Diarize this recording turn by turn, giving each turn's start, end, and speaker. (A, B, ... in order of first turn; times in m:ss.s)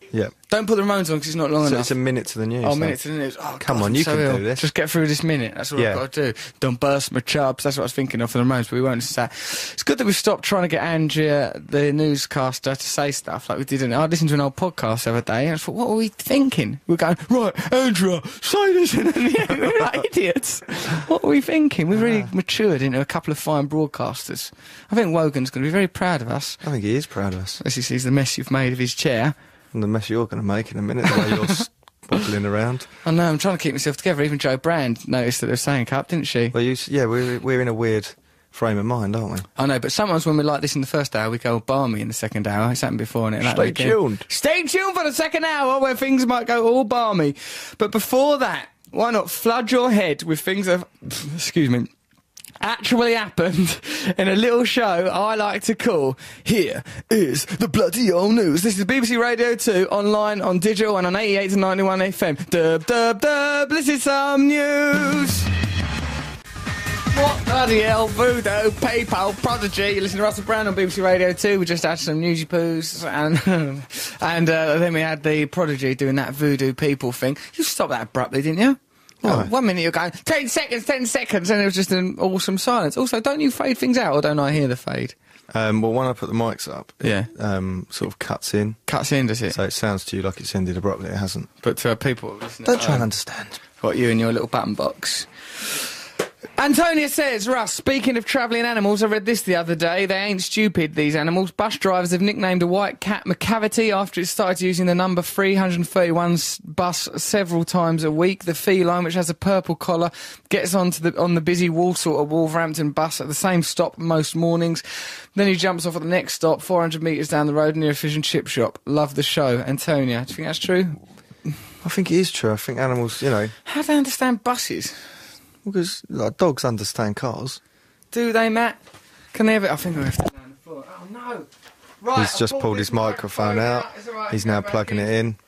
0:00.5-0:01.9 A
0:01.6-0:03.0 B
0:02.6-0:26.6 A
0:03.6-0:04.7 B
0:05.8-0:06.0 B
0:21.9-0:22.3 B
0:26.6-0:27.6 B
0:27.6-0:29.3 A
0:29.7-0:32.9 B
0:31.2-0:31.5 A
0:33.0-0:36.5 A
0:36.5-0:39.5 B
0:39.6-0:51.9 A
0:43.4-0:44.2 B
0:52.6-1:05.5 A
1:07.1-1:25.1 A
1:19.2-1:19.5 B
1:25.5-1:28.8 B
1:27.0-1:27.3 A
1:28.9-1:29.6 A
1:29.5-1:31.5 B
1:31.6-1:33.1 A
1:32.6-1:33.6 B
1:33.8-1:35.3 A
1:36.6-1:54.8 A
1:55.3-2:01.0 A
2:01.8-2:03.5 B
2:03.6-2:05.0 A
2:05.6-2:07.6 B
2:08.1-2:08.8 A
2:09.3-2:11.5 A
2:12.0-2:15.1 A
2:12.1-2:15.4 B